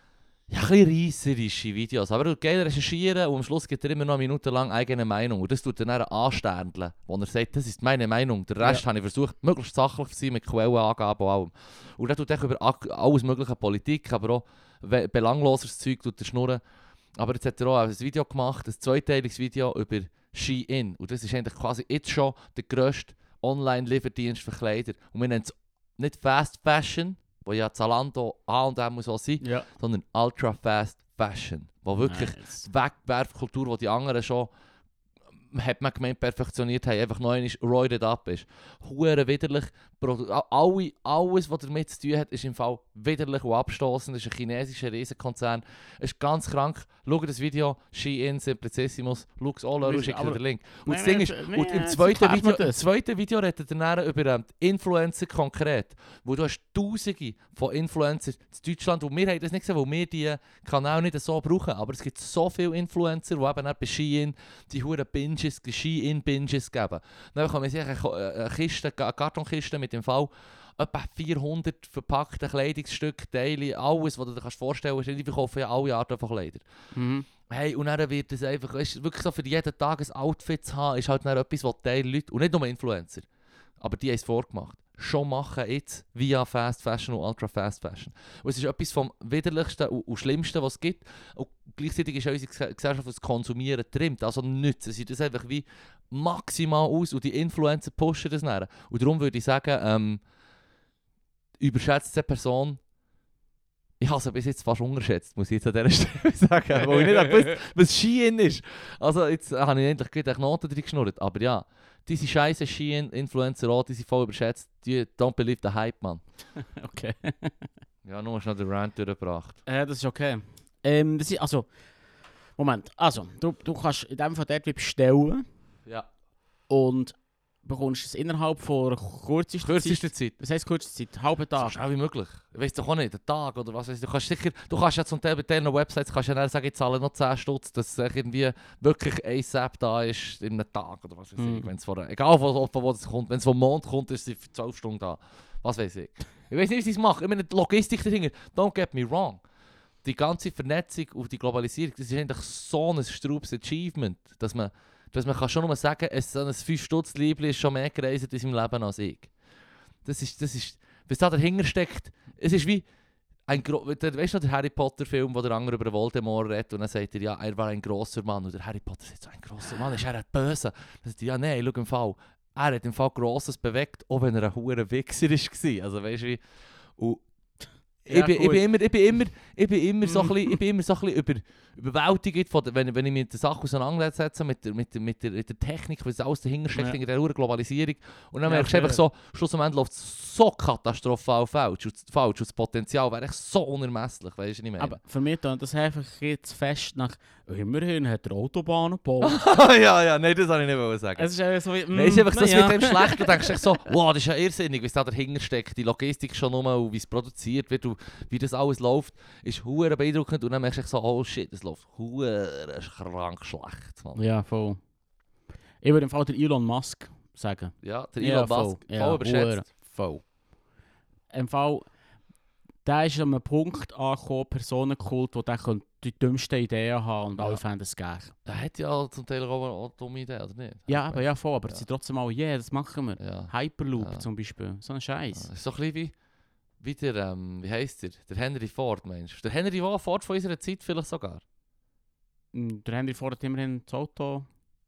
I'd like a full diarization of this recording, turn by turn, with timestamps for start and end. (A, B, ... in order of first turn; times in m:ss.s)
0:00.5-0:16.6 A
0:17.2-0:34.5 A
0:29.4-0:29.7 B
0:32.0-0:32.6 B
0:35.5-1:16.6 A
0:49.8-0:52.8 B
1:16.9-1:17.3 B
1:17.5-1:23.3 A
1:23.8-1:40.2 A
1:41.6-1:42.8 A
1:44.0-1:56.2 A
1:47.2-1:47.5 B
1:56.6-1:57.7 B
1:58.0-1:59.6 A
1:59.7-2:01.7 B
2:02.6-2:05.4 B
2:06.7-2:11.8 B
2:09.6-2:10.4 A
2:11.6-2:29.4 A
2:21.4-2:21.7 B
2:30.0-2:39.3 A
2:40.0-2:42.8 A
2:43.5-2:56.4 A
2:57.0-2:57.2 A
2:58.1-3:15.0 A
2:58.1-2:58.7 B
3:00.0-3:00.6 B
3:08.4-3:09.0 B
3:14.8-3:19.4 B
3:19.2-3:21.3 A
3:21.2-3:23.6 B
3:21.9-3:34.2 A
3:34.2-3:34.8 B
3:35.8-3:40.3 B
3:37.8-3:39.6 A
3:41.3-3:41.9 B
3:42.8-3:48.3 B
3:48.5-3:51.8 A
3:50.9-3:55.5 B
3:53.2-3:54.2 A
3:55.4-3:56.1 A
3:56.8-4:01.4 A
4:02.5-4:04.5 B